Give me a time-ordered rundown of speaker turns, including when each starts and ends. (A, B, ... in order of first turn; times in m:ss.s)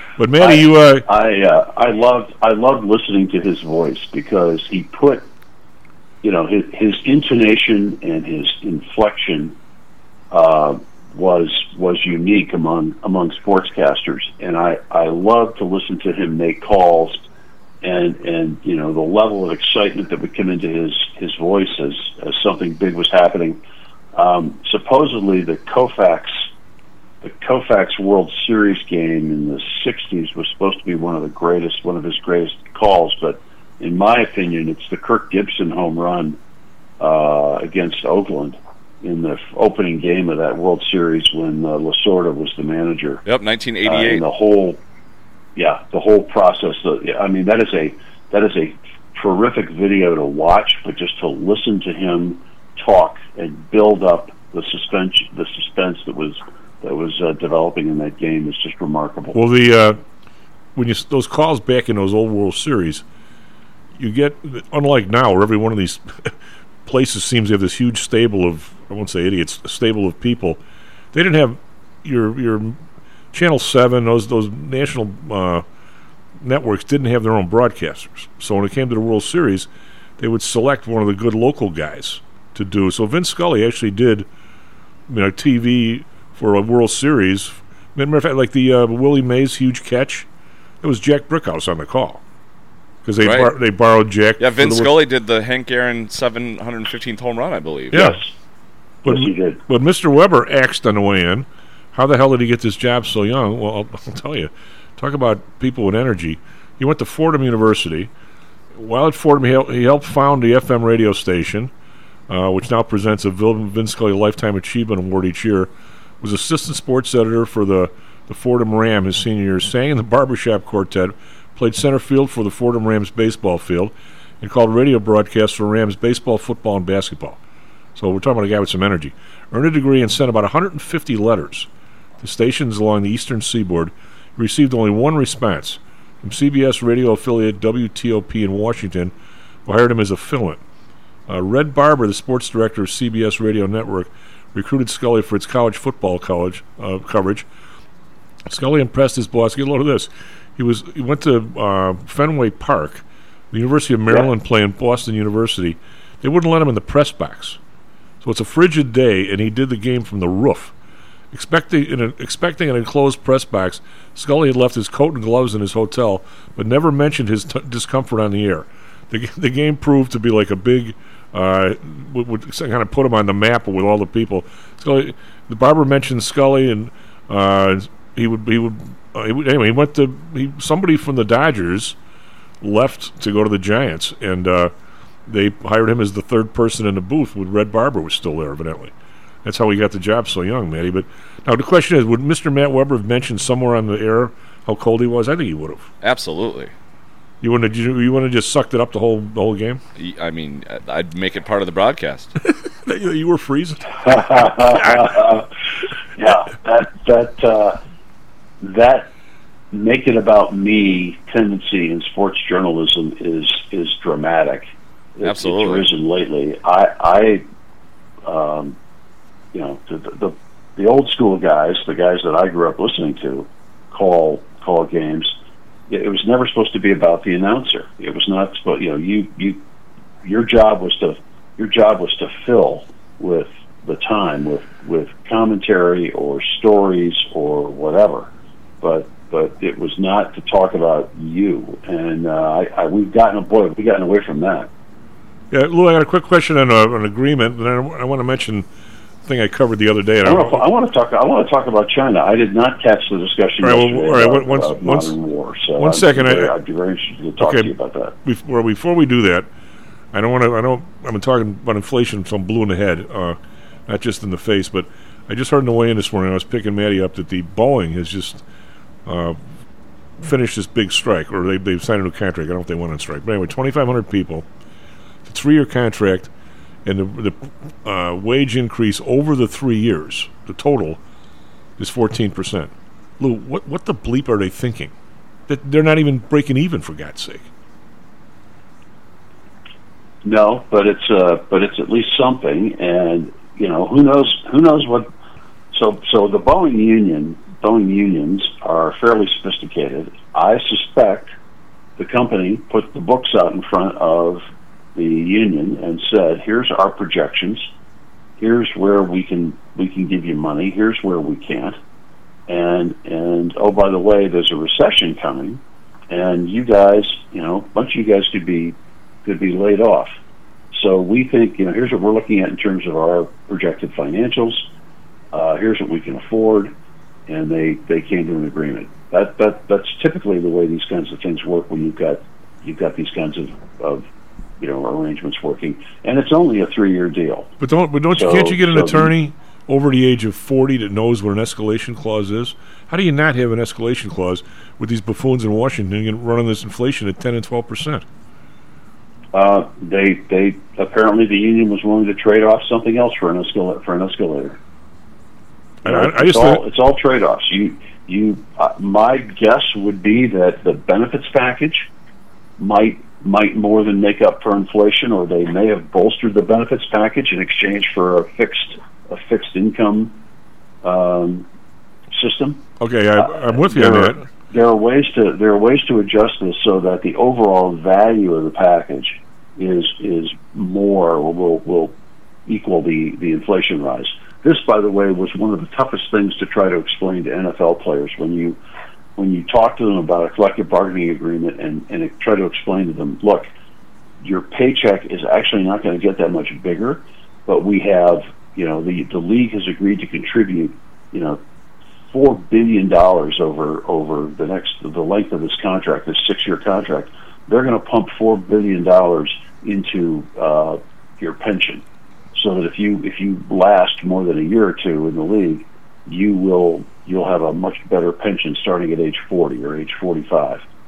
0:00.2-0:01.1 A
0:00.4-0:05.3 B
0:06.2-0:09.6 B
0:10.3-0:17.2 B
0:17.8-0:23.6 B
0:24.1-0:26.5 B
0:27.2-0:36.4 B
0:37.0-0:43.2 B
0:43.2-0:44.2 C
0:43.8-0:44.8 B
0:45.6-0:59.4 B
0:59.3-1:00.0 A
1:00.7-1:03.0 A
1:04.0-1:10.6 A
1:11.1-1:12.8 A
1:13.3-1:15.6 A
1:16.4-1:24.3 A
1:25.1-1:30.3 A
1:30.8-1:32.2 A
1:33.0-1:35.0 A
1:33.2-1:33.5 C
1:34.4-1:38.2 C
1:37.9-1:38.2 A
1:38.0-1:38.2 B
1:39.0-1:48.1 A
1:39.0-1:39.6 B
1:48.7-1:51.7 A
1:52.3-1:55.7 A
1:56.2-2:07.4 A
2:08.0-2:11.7 A
2:12.2-2:19.1 A
2:19.6-2:20.6 A
2:21.3-2:27.5 A
2:28.5-2:37.6 A
2:38.2-2:40.7 A
2:41.3-3:02.0 A
3:02.6-3:04.7 A
3:05.3-3:08.9 A
3:09.4-3:15.9 A
3:16.0-3:16.7 C
3:17.4-3:19.8 A
3:20.0-3:22.4 C
3:22.4-3:25.0 A
3:24.0-3:25.5 B
3:26.2-3:27.8 B
3:28.6-3:29.1 B
3:29.7-3:37.4 B
3:35.2-3:35.9 C
3:38.2-3:38.8 B
3:39.5-3:45.3 B
3:45.9-3:49.6 B
3:50.2-4:04.7 B
4:05.5-4:08.7 A
4:09.2-4:10.6 A
4:10.2-4:18.1 B
4:13.6-4:15.1 A
4:15.8-4:16.5 A
4:17.4-4:17.7 A
4:18.2-4:19.5 A
4:20.1-4:28.4 A
4:29.0-4:29.4 A
4:30.2-4:34.5 A
4:35.2-4:36.3 A
4:36.8-4:41.0 A
4:41.8-4:44.9 A
4:45.5-4:47.5 A
4:50.2-4:55.1 B
4:55.7-5:01.3 B
5:02.0-5:07.7 B
5:08.4-5:11.8 B
5:12.5-5:20.1 B
5:20.7-5:24.7 B
5:25.3-5:26.7 B
5:27.3-5:34.1 B
5:34.6-5:37.5 B
5:37.6-5:48.0 A
5:38.1-5:39.1 B
5:49.3-5:54.6 B
5:55.8-5:56.6 A
5:55.8-6:01.9 B
6:02.6-6:10.1 B
6:10.8-6:11.5 B
6:12.1-6:12.6 B
6:12.8-6:14.2 A
6:13.2-6:21.9 B
6:22.5-6:28.6 B
6:29.2-6:33.5 B
6:34.2-6:41.4 B
6:42.1-6:51.8 B
6:52.3-7:00.6 B